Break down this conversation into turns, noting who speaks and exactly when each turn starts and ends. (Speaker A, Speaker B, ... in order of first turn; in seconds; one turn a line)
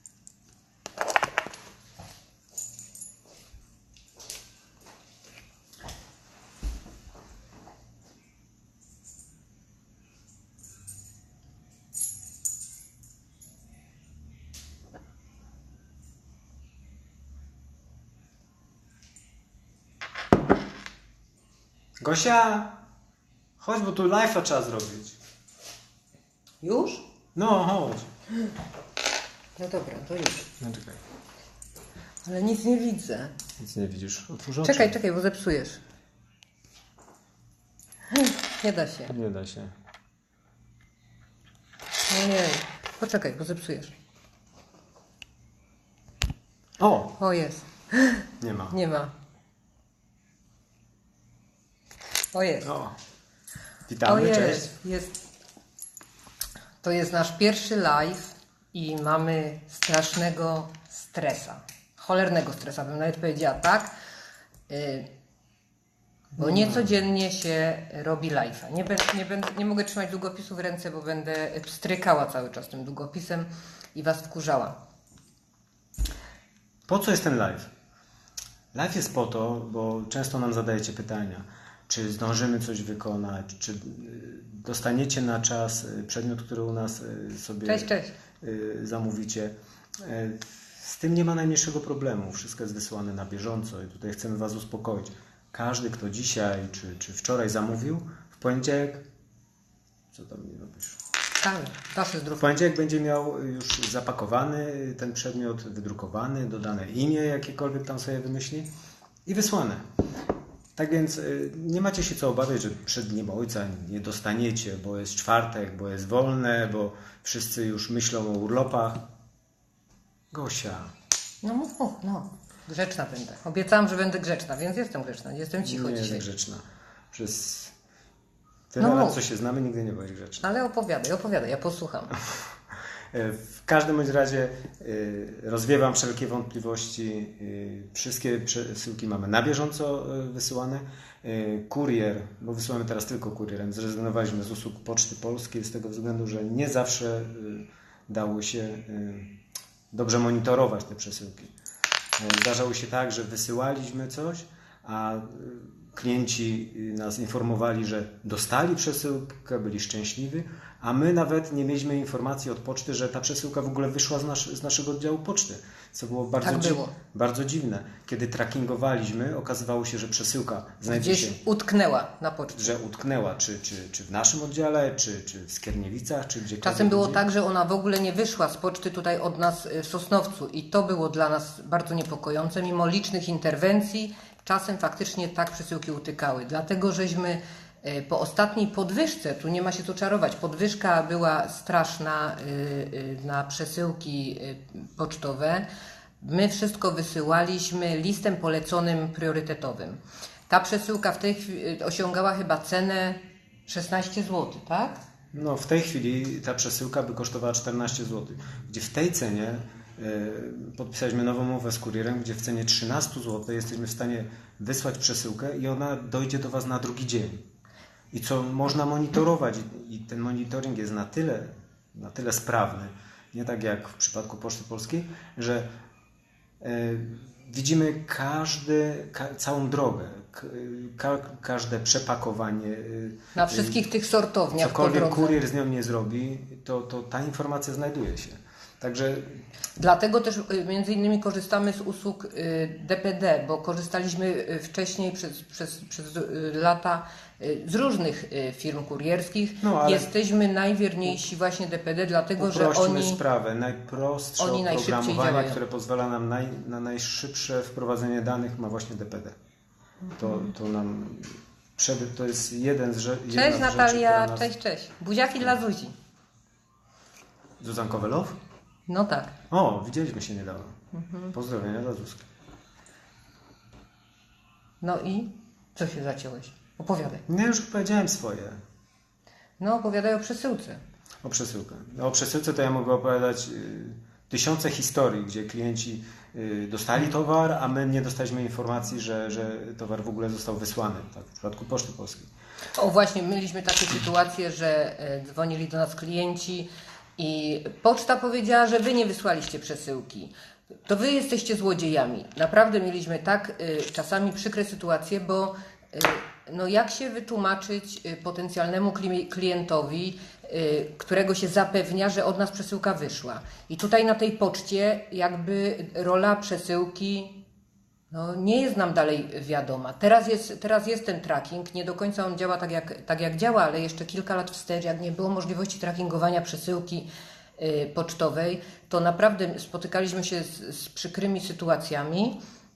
Speaker A: 22.0-22.8
Speaker A: 23.6-25.2
Speaker B: 26.6-27.1
Speaker A: 27.4-28.1
Speaker B: 29.6-30.5
Speaker A: 30.6-31.0
Speaker B: 32.3-33.3
Speaker A: 33.6-35.0
Speaker B: 34.6-35.8
Speaker B: 38.1-39.2
Speaker A: 39.1-39.7
Speaker B: 42.1-43.9
Speaker A: 46.8-47.2
Speaker B: 47.2-49.1
Speaker A: 48.4-48.8
Speaker B: 52.3-52.7
Speaker A: 52.6-53.0
Speaker A: 53.9-54.7
Speaker B: 54.0-55.1
Speaker B: 56.8-63.9
Speaker B: 64.7-65.1
Speaker B: 66.3-74.8
Speaker A: 66.4-67.0
Speaker A: 76.9-77.7
Speaker A: 78.7-87.9
Speaker B: 87.7-88.1
Speaker A: 88.4-99.0
Speaker A: 100.1-101.0
Speaker B: 101.4-102.5
Speaker A: 102.4-108.7
Speaker A: 109.3-109.8
Speaker A: 110.8-119.0
Speaker A: 120.3-120.9
Speaker B: 121.4-126.2
Speaker A: 125.6-127.7
Speaker A: 128.7-130.4
Speaker B: 128.8-129.2
Speaker B: 130.4-132.2
Speaker A: 133.1-149.3
Speaker A: 149.9-151.5
Speaker A: 152.2-171.4
Speaker B: 166.4-166.9
Speaker B: 170.9-172.8
Speaker A: 172.5-177.2
Speaker B: 176.6-195.7
Speaker B: 196.2-205.0
Speaker A: 205.3-217.4
Speaker A: 218.1-225.7
Speaker A: 226.6-233.8
Speaker B: 233.3-235.4
Speaker A: 234.6-239.4
Speaker B: 239.8-253.2
Speaker A: 249.6-250.1
Speaker A: 252.4-259.4
Speaker B: 254.4-255.6
Speaker B: 260.1-260.5
Speaker A: 260.2-264.5
Speaker B: 263.3-266.0
Speaker A: 267.6-268.4
Speaker B: 268.9-269.4
Speaker A: 269.5-270.8
Speaker B: 270.9-271.3
Speaker A: 271.3-272.3
Speaker B: 274.8-277.2
Speaker A: 277.3-278.6
Speaker B: 279.6-280.8
Speaker A: 281.2-292.3
Speaker B: 292.8-300.3
Speaker B: 300.9-317.4
Speaker B: 318.1-327.1
Speaker B: 327.6-332.4